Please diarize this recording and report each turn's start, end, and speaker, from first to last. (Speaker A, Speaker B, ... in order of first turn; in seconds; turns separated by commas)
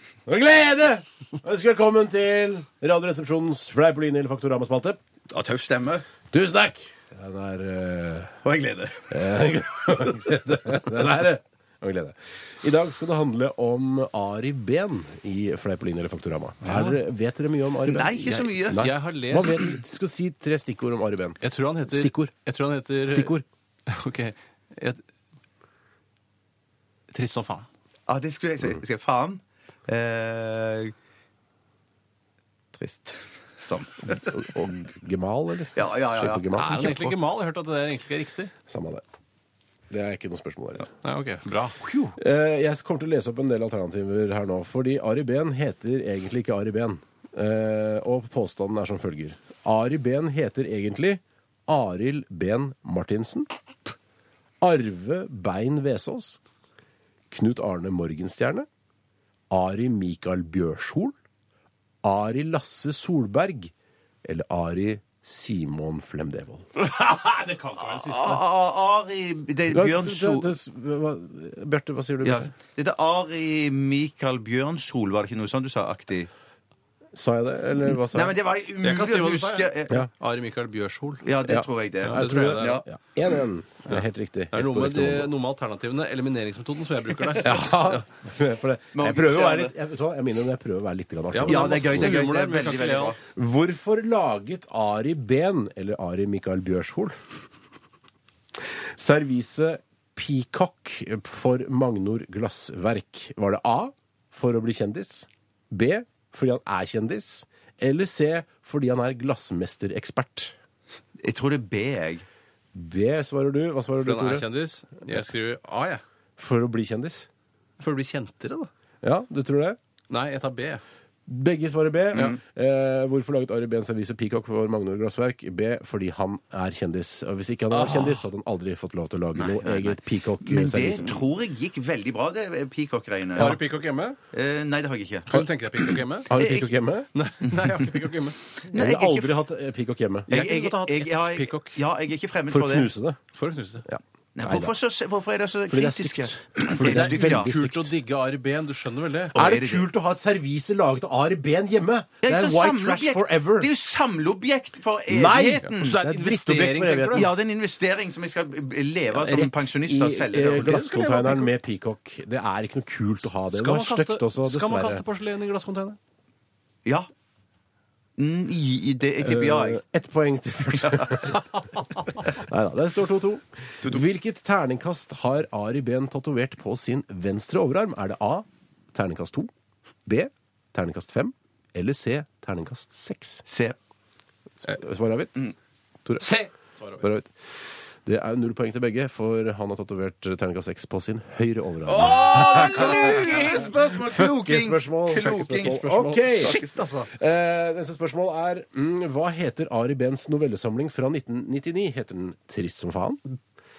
Speaker A: 0.2-5.0, Speaker B: 5.3-6.0, Speaker A: 6.3-8.3, Speaker B: 8.4-9.2, Speaker A: 9.1-22.3, Speaker C: 16.6-17.0, Speaker B: 17.9-18.9, Speaker C: 18.6-19.7, Speaker C: 21.4-23.3, Speaker A: 23.1-23.4, Speaker C: 23.9-25.0, Speaker C: 27.1-27.7, Speaker B: 28.1-30.9, Speaker B: 32.8-34.4, Speaker A: 34.1-37.0, Speaker B: 35.7-37.1, Speaker C: 36.5-38.5, Speaker A: 38.7-39.0, Speaker A: 39.9-40.9, Speaker C: 41.0-42.2, Speaker A: 42.2-53.5, Speaker A: 54.6-56.4, Speaker A: 57.3-58.7, Speaker A: 59.5-61.1, Speaker A: 62.0-63.7, Speaker A: 64.2-66.7, Speaker C: 66.8-68.5, Speaker B: 67.8-70.5, Speaker A: 69.7-72.5, Speaker B: 72.2-76.3, Speaker A: 77.1-78.3, Speaker B: 78.1-80.0, Speaker C: 78.8-81.2, Speaker B: 81.2-82.8, Speaker A: 81.5-85.3, Speaker C: 82.0-82.8, Speaker C: 83.9-88.0, Speaker A: 87.4-92.2, Speaker B: 89.0-89.7, Speaker C: 91.3-93.2, Speaker B: 91.4-93.2, Speaker A: 93.3-97.2, Speaker A: 98.6-110.5, Speaker B: 111.2-112.2, Speaker A: 112.7-114.5, Speaker C: 114.0-116.0, Speaker A: 116.4-117.3, Speaker C: 117.8-118.7, Speaker A: 119.0-119.8, Speaker C: 120.1-120.8, Speaker A: 121.3-131.2, Speaker B: 122.1-122.4, Speaker C: 127.7-128.2, Speaker B: 129.3-133.6, Speaker C: 133.4-134.2, Speaker B: 134.3-136.7, Speaker C: 135.3-136.3, Speaker A: 136.3-137.1, Speaker C: 137.1-138.5, Speaker B: 137.4-137.9, Speaker B: 138.7-139.4, Speaker A: 138.7-140.3, Speaker C: 140.3-141.8, Speaker B: 140.3-142.9, Speaker A: 142.5-143.2, Speaker C: 143.3-143.8, Speaker A: 143.8-144.7, Speaker B: 144.3-147.5, Speaker A: 145.7-147.9, Speaker C: 146.8-149.4, Speaker B: 149.3-149.9, Speaker A: 149.3-153.7, Speaker B: 152.2-156.0, Speaker A: 155.1-157.3, Speaker C: 155.7-157.3, Speaker B: 157.1-160.8, Speaker A: 159.1-165.0, Speaker C: 160.5-161.5, Speaker C: 163.5-166.0, Speaker B: 168.2-169.8, Speaker A: 169.2-171.4, Speaker B: 170.8-171.3, Speaker A: 172.2-179.5, Speaker A: 180.1-183.4, Speaker B: 183.4-183.8, Speaker A: 184.6-185.4, Speaker C: 186.2-187.0, Speaker A: 187.0-187.3, Speaker A: 188.0-193.4, Speaker C: 191.9-193.7, Speaker B: 192.0-196.8, Speaker A: 194.0-196.6, Speaker C: 195.7-197.1, Speaker A: 197.1-203.3